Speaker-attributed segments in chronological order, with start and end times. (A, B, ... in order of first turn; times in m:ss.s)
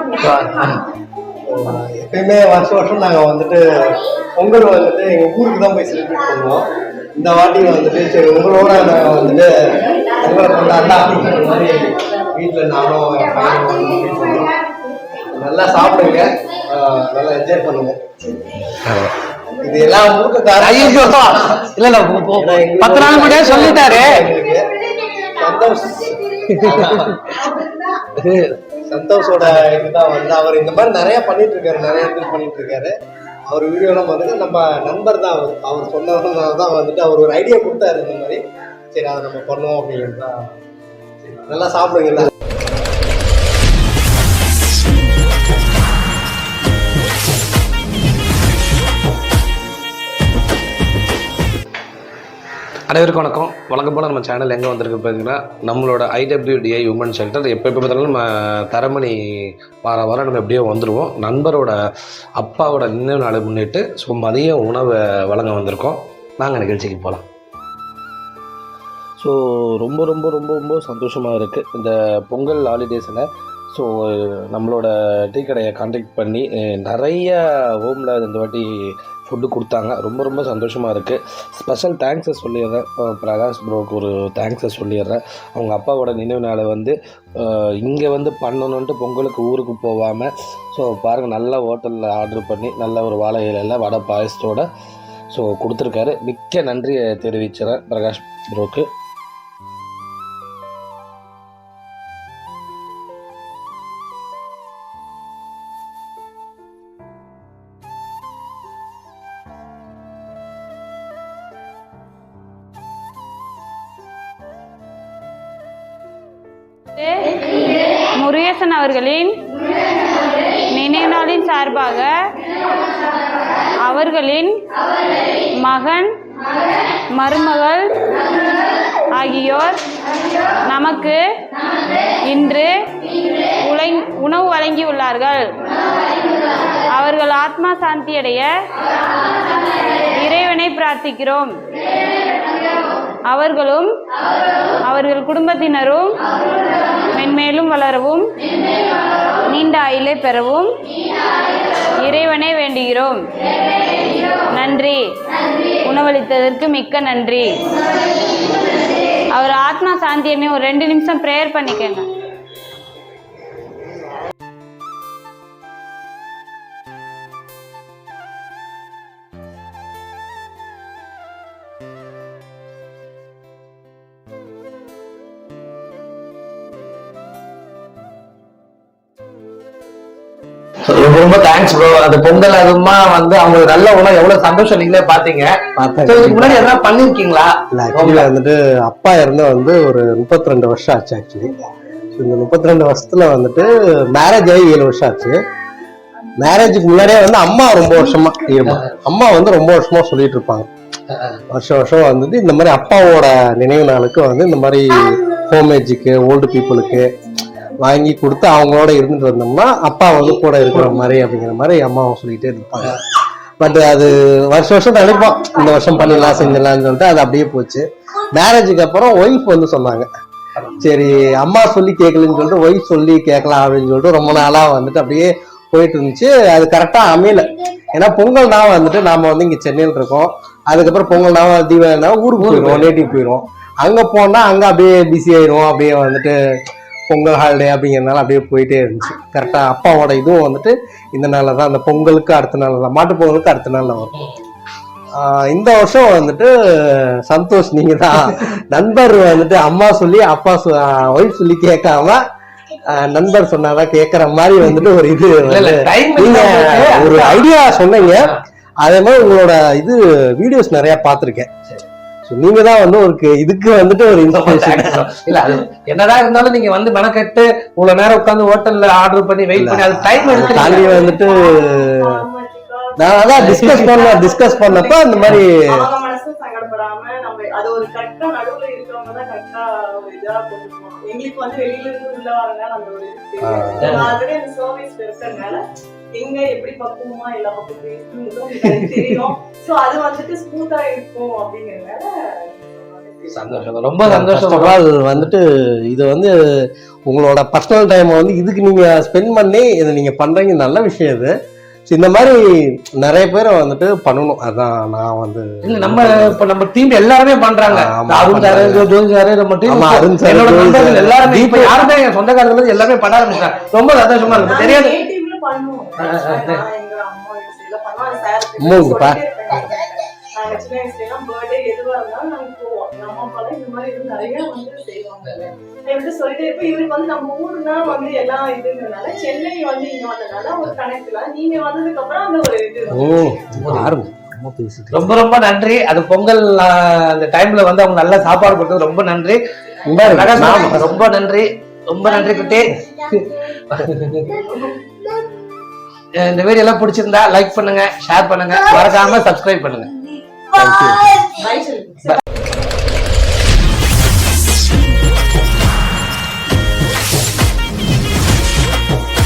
0:00.2-0:00.8 A
0:01.4-0:14.5 B
0:15.2-0:18.0 B
0:18.7-0:19.1 A
0:19.5-0:21.8 B
0:20.6-0:24.3 A
0:22.3-0:27.2 B
0:26.5-0:27.6 A
0:28.2-0:28.6 A
0:28.8-0:32.9 B
0:33.5-0:38.4 B
0:38.9-0:40.5 B
0:41.2-0:42.3 B
0:52.9-1:01.8 A
1:02.4-1:07.2 A
1:09.2-1:18.7 A
1:19.2-1:34.7 A
1:35.3-1:38.9 A
1:57.0-1:57.5 C
1:58.1-1:59.5 C
2:00.7-2:02.3 C
2:03.8-2:04.6 C
2:05.6-2:06.2 C
2:07.1-2:08.0 C
2:09.1-2:09.8 C
2:10.6-2:11.2 C
2:12.3-2:15.6 C
2:16.9-2:18.5 C
2:19.7-2:21.6 C
2:23.3-2:24.0 C
2:24.8-2:26.2 C
2:27.1-2:28.3 C
2:29.5-2:30.7 C
2:32.0-2:33.3 C
2:34.5-2:35.0 C
2:35.8-2:37.6 C
2:39.3-2:42.1 C
3:00.9-3:08.3 A
3:05.8-3:06.7 B
3:07.7-3:11.6 B
3:12.2-3:15.4 B
3:16.4-3:20.7 B
3:21.5-3:27.1 B
3:27.8-3:33.0 B
3:33.6-3:40.1 B
3:36.0-3:36.6 A
3:40.8-3:56.4 B
3:52.4-3:52.9 A
3:57.1-4:04.1 B
4:05.2-4:12.2 B
4:12.8-4:21.5 B
4:15.5-4:17.4 A
4:22.3-4:25.1 B
4:24.2-4:31.1 A
4:29.6-4:32.1 B
4:30.2-4:45.6 D
4:33.0-4:35.6 B
4:33.4-4:34.0 A
4:43.4-4:44.1 B
4:43.8-4:44.1 A
4:46.2-4:53.6 D
4:53.3-4:54.8 A
4:54.0-4:56.3 B
4:57.1-5:01.3 B
5:01.9-5:06.4 B
5:05.6-5:15.0 A
5:07.7-5:08.9 B
5:09.7-5:11.8 B
5:12.9-5:13.7 D
5:14.2-5:14.6 B
5:14.5-5:33.2 D
5:16.0-5:16.6 A
5:18.6-5:19.2 B
5:32.9-5:35.0 B
5:33.6-5:33.9 A
5:34.9-5:39.4 A
5:39.8-5:40.9 B
5:40.0-5:44.4 A
5:46.1-5:49.9 A
5:50.6-5:51.1 B
5:50.6-5:51.0 A
5:51.3-5:52.2 D